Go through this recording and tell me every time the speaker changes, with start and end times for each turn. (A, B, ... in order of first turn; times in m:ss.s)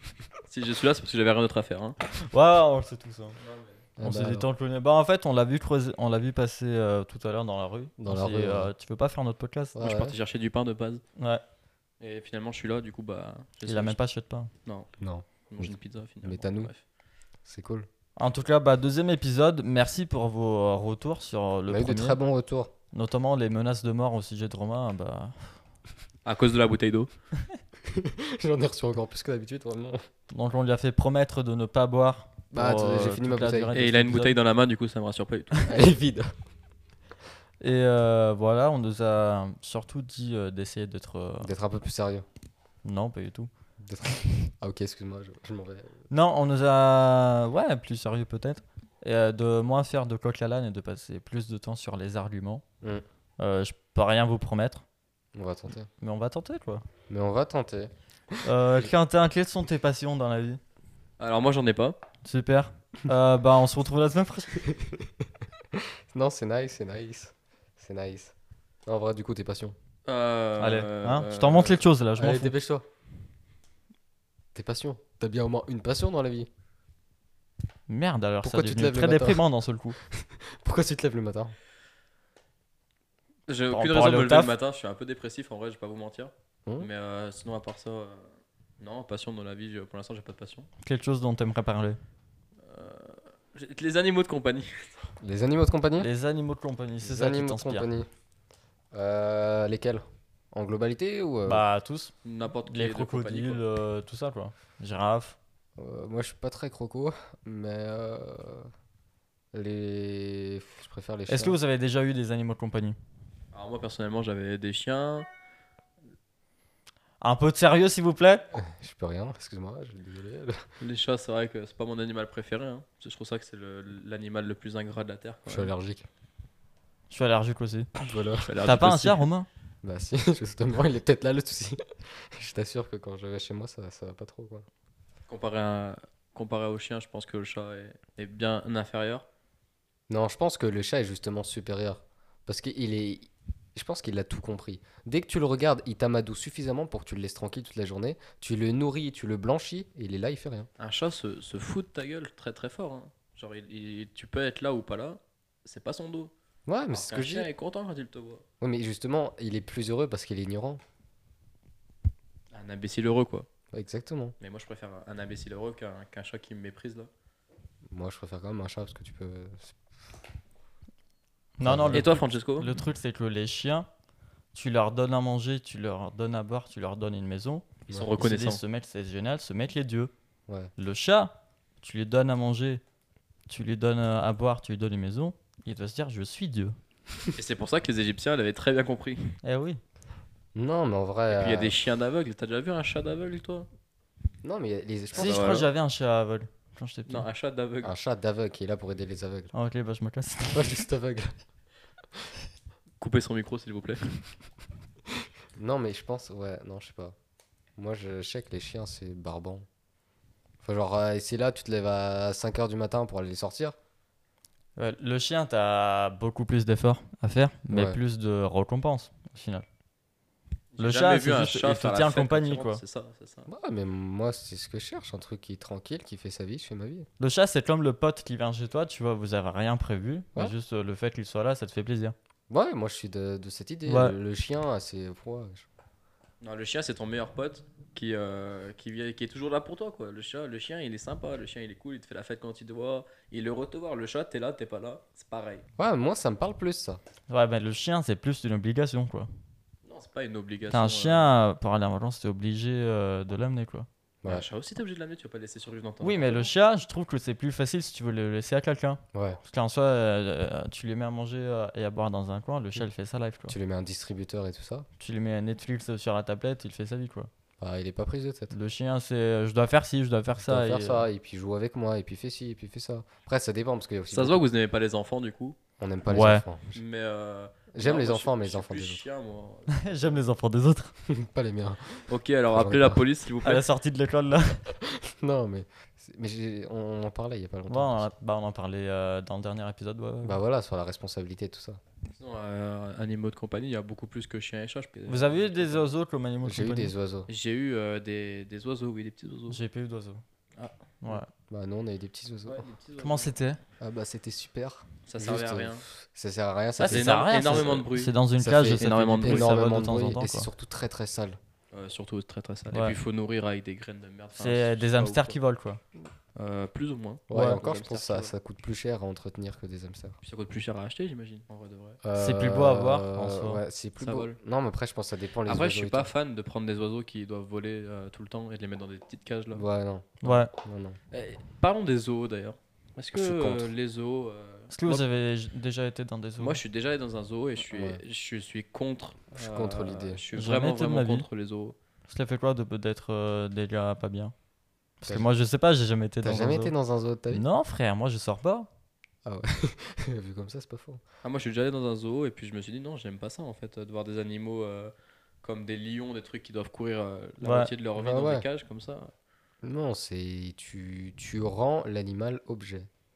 0:00.5-0:02.0 A
0:02.2-0:03.4 B
0:03.4-0:03.8 A
0:04.0-0:04.5 C
0:04.0-0:09.8 B
0:08.0-0:08.7 C
0:09.8-0:10.2 C
0:09.8-0:11.0 A
0:11.2-0:11.4 B
0:12.0-0:14.0 A
0:13.6-0:14.5 B
0:15.0-0:16.7 C
0:15.5-0:16.8 A
0:17.5-0:17.9 C
0:18.2-0:22.2 B
0:21.7-0:22.7 C
0:22.9-0:25.6 B
0:26.2-0:27.1 A
0:27.9-0:30.0 C
0:30.3-0:34.4 B
0:32.5-0:33.7 C
0:33.7-0:35.8 A
0:35.6-0:36.3 C
0:37.6-0:41.5 B
0:41.4-0:42.3 C
0:42.8-0:43.5 B
0:43.8-0:46.0 C
0:46.1-0:52.6 B
0:53.4-0:54.8 B
0:55.4-0:55.9 C
0:56.0-0:56.8 B
0:57.1-0:58.4 C
0:58.4-1:00.6 B
1:01.2-1:02.0 A
1:02.2-1:04.6 B
1:04.7-1:05.1 C
1:06.1-1:08.3 C
1:08.9-1:09.8 C
1:10.1-1:11.8 A
1:10.6-1:12.5 B
1:12.2-1:12.9 C
1:14.5-1:16.5 C
1:17.9-1:20.0 B
1:18.4-1:19.4 C
1:20.1-1:21.6 C
1:23.5-1:28.3 A
1:23.7-1:24.5 B
1:28.8-1:30.7 A
1:30.8-1:32.0 B
1:32.6-1:35.1 A
1:35.2-1:36.1 C
1:36.0-1:37.9 B
1:37.0-1:38.1 C
1:38.9-1:41.6 C
1:41.5-1:42.1 B
1:42.2-1:43.6 A
1:42.6-1:45.4 B
1:45.8-1:48.7 C
1:49.5-1:51.6 C
1:51.3-1:53.0 B
1:53.5-1:55.3 A
1:57.2-1:58.4 B
1:58.5-2:00.6 C
2:00.8-2:05.7 A
2:05.5-2:06.1 C
2:07.1-2:07.9 B
2:08.0-2:08.6 C
2:08.4-2:09.3 A
2:08.6-2:09.5 B
2:09.8-2:14.7 C
2:15.3-2:19.3 A
2:20.1-2:30.7 C
2:30.8-2:36.3 A
2:36.7-2:37.5 C
2:36.9-2:38.4 A
2:38.6-2:40.8 C
2:42.5-2:43.5 A
2:43.7-2:44.4 C
2:44.4-2:47.1 A
2:47.9-2:49.8 C
2:51.6-2:53.9 B
2:51.6-2:52.1 C
2:51.9-2:52.7 A
2:54.5-3:00.1 B
2:57.9-2:58.1 C
2:57.9-2:58.6 A
3:00.8-3:02.8 B
3:03.5-3:06.8 B
3:07.4-3:09.4 A
3:09.4-3:09.8 B
3:10.6-3:11.8 C
3:11.3-3:13.7 A
3:14.4-3:15.6 C
3:15.1-3:15.7 A
3:15.1-3:17.3 B
3:17.1-3:17.9 A
3:17.8-3:19.5 C
3:19.5-3:20.8 B
3:20.5-3:21.3 C
3:23.0-3:24.2 A
3:25.6-3:27.2 C
3:27.8-3:29.6 C
3:30.6-3:33.8 C
3:34.8-3:39.7 B
3:37.7-3:38.0 C
3:40.7-3:43.5 A
3:40.8-3:42.8 B
3:43.5-3:47.1 C
3:47.2-3:52.2 B
3:52.5-3:55.7 C
3:53.9-3:54.2 B
3:56.4-4:05.6 A
4:05.8-4:07.0 C
4:07.3-4:09.3 B
4:09.9-4:11.3 A
4:10.7-4:13.9 B
4:14.3-4:16.5 A
4:16.0-4:23.6 B
4:19.1-4:19.4 C
4:23.5-4:24.9 C
4:25.0-4:27.3 B
4:27.6-4:28.6 C
4:28.5-4:31.1 B
4:30.4-4:34.4 C
4:34.1-4:35.6 A
4:35.8-4:36.8 C
4:36.1-4:36.4 B
4:36.7-4:40.2 A
4:37.7-4:39.1 C
4:39.7-4:40.9 B
4:41.1-4:43.0 C
4:42.1-4:43.7 A
4:43.4-4:44.6 B
4:44.8-4:48.1 C
4:47.7-4:50.4 B
4:50.2-4:51.8 C
4:52.1-4:55.8 A
4:55.1-4:56.9 B
4:56.4-4:57.3 C
4:57.3-4:59.6 A
4:59.5-5:00.2 B
5:00.6-5:01.2 A
5:01.5-5:02.7 C
5:02.5-5:03.4 A
5:03.0-5:03.6 B
5:03.8-5:07.7 C
5:05.1-5:05.8 A
5:06.8-5:10.5 B
5:06.8-5:09.5 A
5:08.4-5:11.4 C
5:11.7-5:15.4 A
5:14.4-5:15.8 B
5:16.4-5:18.3 A
5:17.3-5:20.2 C
5:17.3-5:17.6 B
5:20.2-5:22.0 A
5:22.0-5:26.1 C
5:22.2-5:23.6 B
5:24.0-5:24.4 A
5:25.5-5:29.6 A
5:29.5-5:31.0 C
5:30.2-5:30.5 B
5:31.1-5:35.1 A
5:33.1-5:33.7 C
5:34.7-5:36.6 B
5:36.4-5:41.8 A
5:37.7-5:38.0 C
5:39.3-5:40.2 C
5:40.3-5:41.3 B
5:42.1-5:44.3 B
5:45.0-5:46.7 B
5:46.2-5:47.4 C
5:47.3-5:48.7 B
5:49.2-5:51.0 C
5:51.2-5:59.1 A
5:57.4-5:57.7 B
5:58.0-5:58.5 C
5:59.6-6:02.9 C